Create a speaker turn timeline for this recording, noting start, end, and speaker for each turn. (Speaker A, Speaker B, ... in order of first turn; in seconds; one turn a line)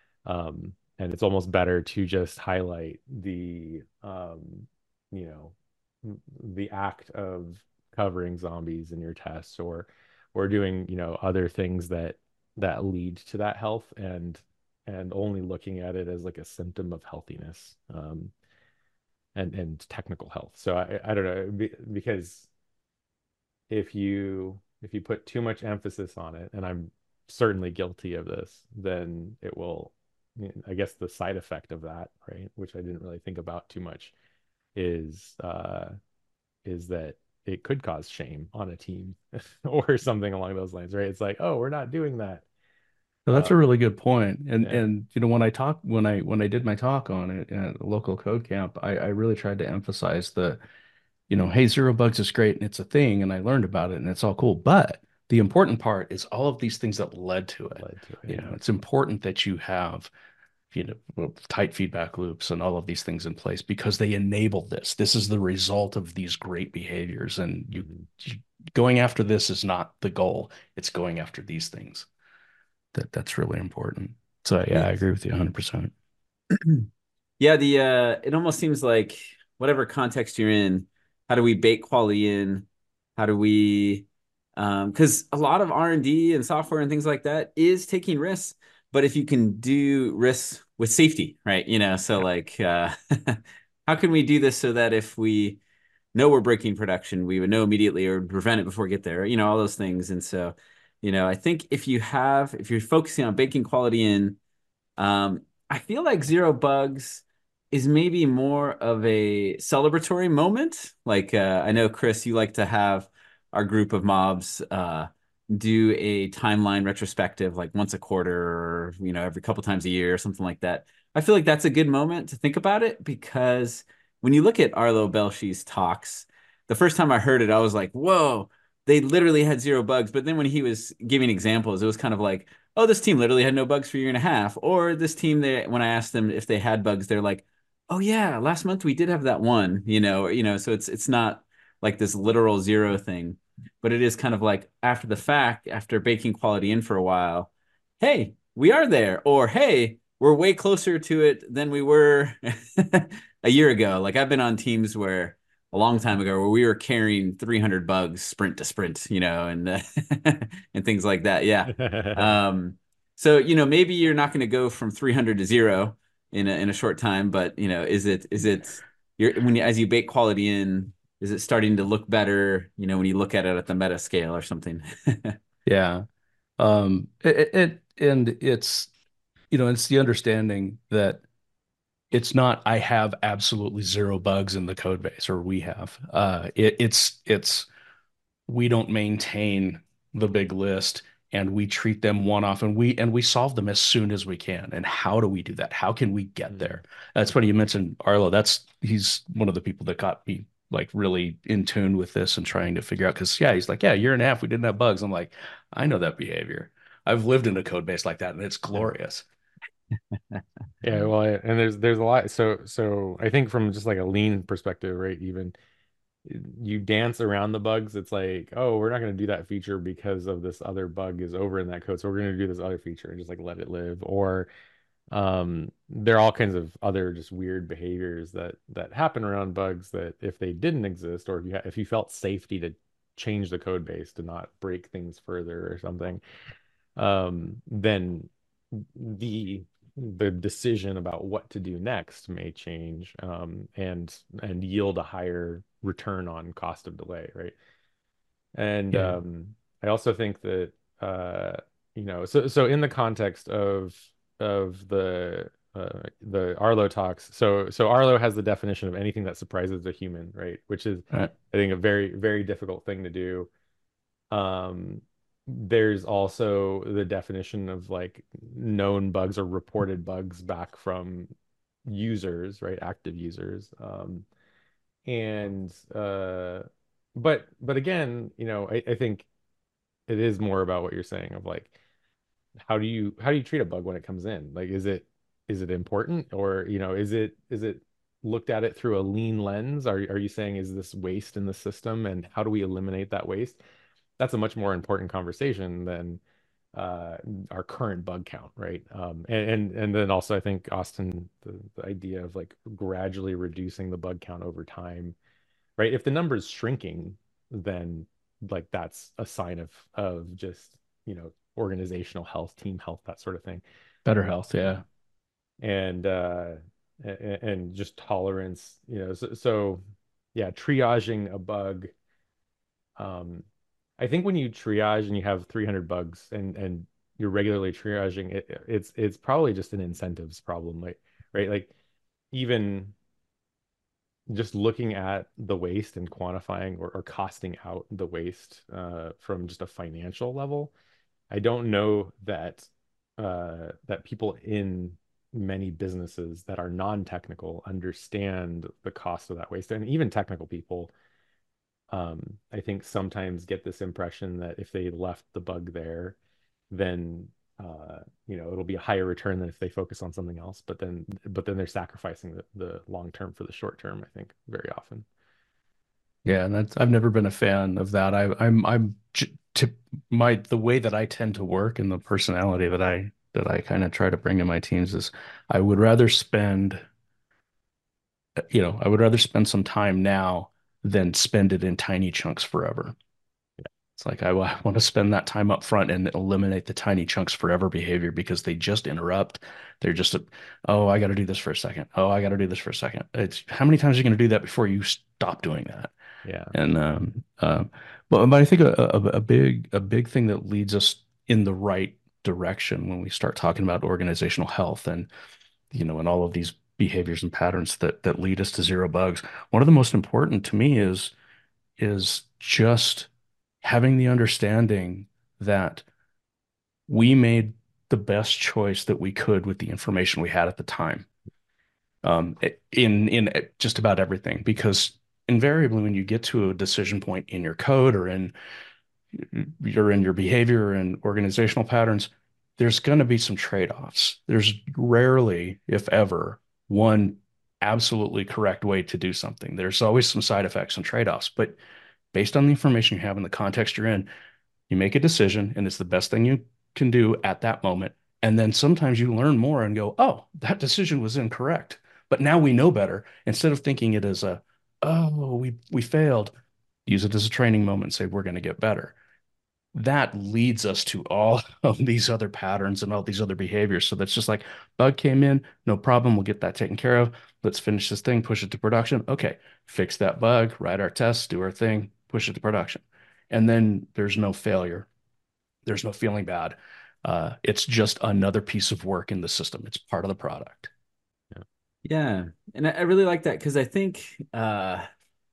Speaker A: 0.2-18.3
Speaker A: 19.3-22.5
Speaker A: 23.7-34.1
Speaker A: 34.7-36.0
Speaker A: 36.6-42.4
Speaker B: 43.2-50.6
Speaker B: 51.3-60.1
Speaker A: 57.8-58.6
Speaker B: 60.7-72.1
Speaker A: 67.8-68.1
Speaker B: 72.9-75.9
Speaker C: 76.5-76.9
Speaker C: 77.4-82.7
Speaker C: 83.2-95.6
Speaker C: 96.1-104.4
Speaker C: 105.0-175.4
Speaker A: 161.8-162.3
Speaker B: 175.7-176.0
Speaker B: 176.6-178.9
Speaker B: 179.5-181.2
Speaker B: 182.1-187.7
Speaker B: 188.5-209.2
Speaker A: 196.5-196.8
Speaker A: 210.8-215.5
Speaker A: 216.2-224.5
Speaker A: 225.1-236.2
Speaker A: 237.0-247.5
Speaker A: 248.5-263.5
Speaker B: 248.9-249.2
Speaker A: 264.3-271.3
Speaker A: 271.9-274.2
Speaker A: 275.1-279.3
Speaker A: 280.1-281.7
Speaker A: 282.7-293.6
Speaker A: 294.2-296.2
Speaker A: 296.7-305.1
Speaker A: 305.8-313.6
Speaker B: 314.0-314.8
Speaker A: 315.6-319.8
Speaker A: 320.3-321.9
Speaker A: 323.0-323.4
Speaker A: 324.0-331.7
Speaker A: 332.3-332.9
Speaker A: 334.3-340.7
Speaker A: 341.3-350.9
Speaker A: 351.9-356.1
Speaker A: 356.7-365.1
Speaker B: 366.2-376.8
Speaker B: 378.4-382.9
Speaker B: 384.0-395.9
Speaker A: 396.2-396.6
Speaker B: 396.5-405.1
Speaker B: 405.7-411.1
Speaker B: 411.8-413.1
Speaker B: 413.6-415.8
Speaker B: 416.9-421.1
Speaker B: 422.0-428.3
Speaker B: 429.1-441.6
Speaker B: 442.1-444.1
Speaker B: 444.7-456.3
Speaker B: 456.9-458.9
Speaker B: 459.7-474.9
Speaker B: 475.6-480.7
Speaker C: 481.8-484.9